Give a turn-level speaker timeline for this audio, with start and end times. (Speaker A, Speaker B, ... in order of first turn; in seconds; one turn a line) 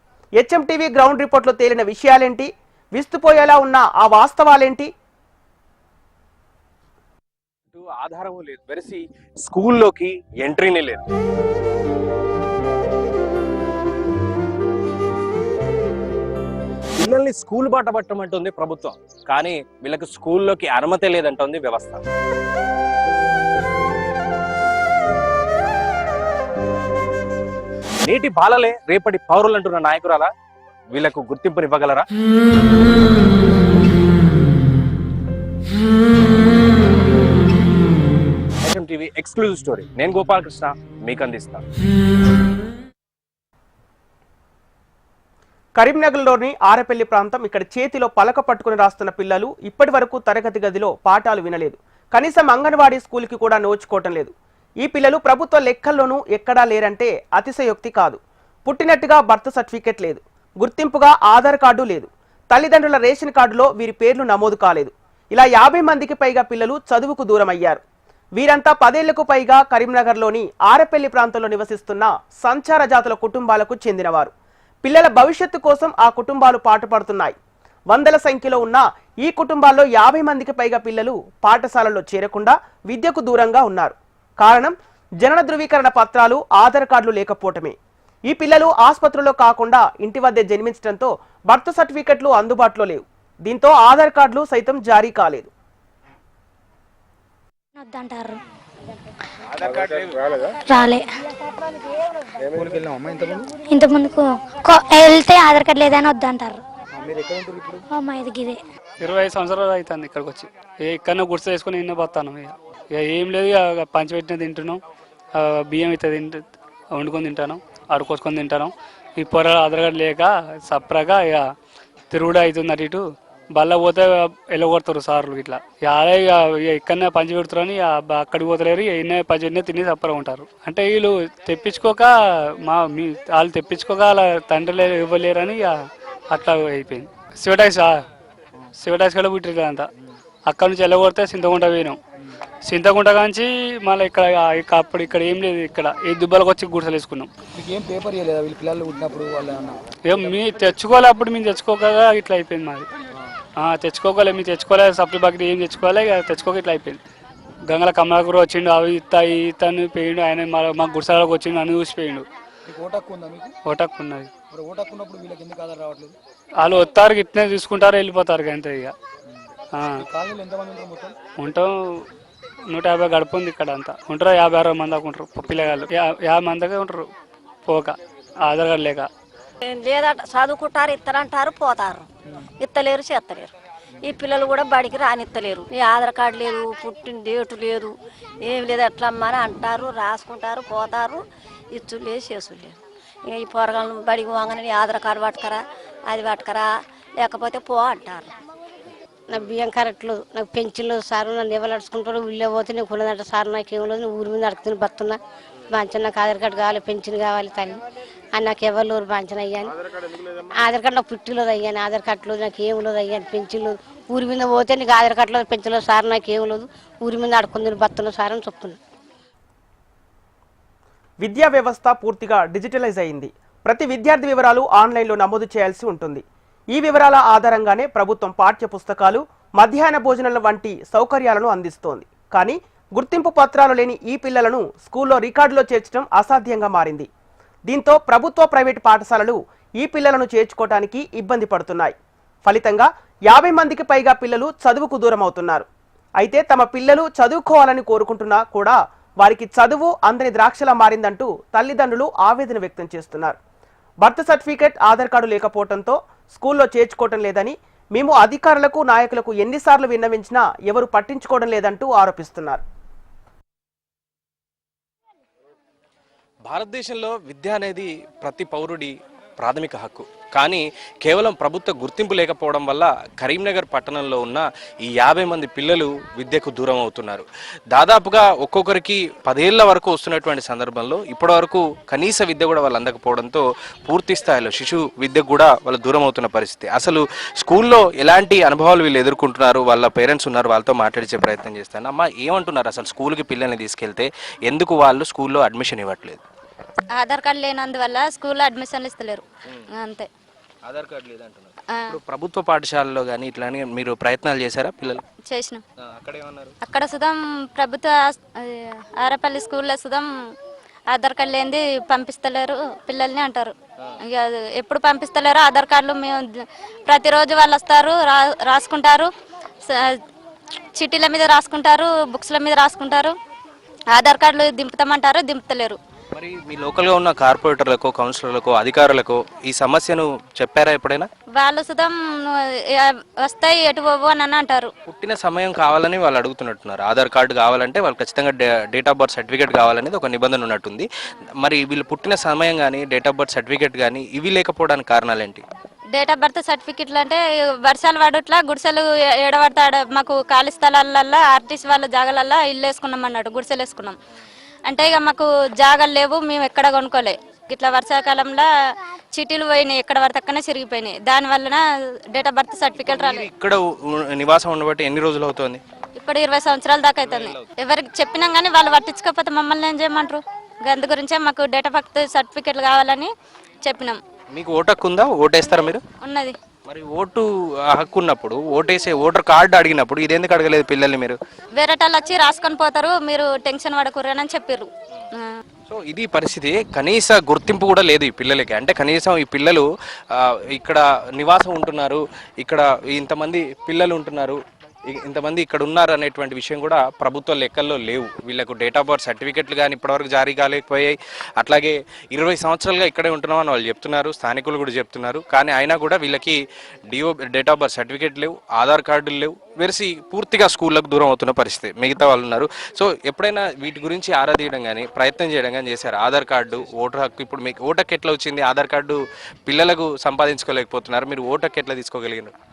Speaker A: 0.4-4.9
Speaker B: 7.7-11.1
Speaker B: 17.0-22.1
Speaker B: 28.0-30.3
Speaker B: 30.9-32.1
Speaker B: 38.6-41.6
Speaker A: 45.8-67.8
Speaker A: 68.4-74.3
Speaker A: 74.8-77.4
Speaker A: 77.9-87.8
Speaker A: 88.3-95.5
Speaker C: 97.8-98.4
Speaker C: 100.7-101.0
Speaker D: 102.4-103.5
Speaker C: 103.7-106.6
Speaker D: 107.0-107.8
Speaker C: 107.9-108.6
Speaker E: 109.0-114.8
Speaker E: 115.4-121.5
Speaker E: 122.1-132.1
Speaker E: 132.7-135.7
Speaker E: 136.3-138.0
Speaker E: 138.8-139.9
Speaker E: 140.5-142.0
Speaker E: 142.7-147.3
Speaker D: 147.6-150.7
Speaker E: 150.1-152.9
Speaker E: 153.6-157.0
Speaker E: 157.7-162.3
Speaker D: 162.7-163.5
Speaker E: 163.7-164.3
Speaker D: 164.5-166.2
Speaker E: 166.6-168.9
Speaker E: 169.8-170.1
Speaker D: 170.0-171.2
Speaker E: 171.4-172.1
Speaker E: 172.7-177.1
Speaker E: 177.7-179.1
Speaker F: 179.6-182.1
Speaker F: 182.6-183.5
Speaker F: 184.0-198.3
Speaker G: 199.3-205.2
Speaker G: 205.7-207.8
Speaker G: 208.3-209.7
Speaker G: 210.6-218.8
Speaker A: 221.2-237.1
Speaker A: 237.7-245.7
Speaker A: 246.2-253.4
Speaker A: 254.0-262.6
Speaker B: 266.4-296.2
Speaker H: 296.9-299.2
Speaker H: 299.8-300.1
Speaker B: 300.6-305.0
Speaker H: 305.2-305.6
Speaker B: 305.8-306.6
Speaker H: 306.6-310.1
Speaker H: 310.9-313.5
Speaker H: 314.1-319.1
Speaker H: 319.6-320.0
Speaker H: 320.8-323.1
Speaker H: 323.9-325.8
Speaker B: 326.1-331.1
Speaker H: 331.4-331.9
Speaker H: 332.7-334.7
Speaker B: 334.9-340.9
Speaker B: 341.4-345.5
Speaker H: 345.9-353.9
Speaker H: 354.7-358.5
Speaker H: 359.1-361.6
Speaker H: 362.1-363.3
Speaker B: 362.9-365.6
Speaker H: 366.0-373.1
Speaker B: 367.1-367.5
Speaker H: 373.6-374.0
Speaker B: 374.3-375.9
Speaker H: 376.0-376.4
Speaker B: 376.6-381.2
Speaker H: 381.6-385.3
Speaker B: 385.7-422.3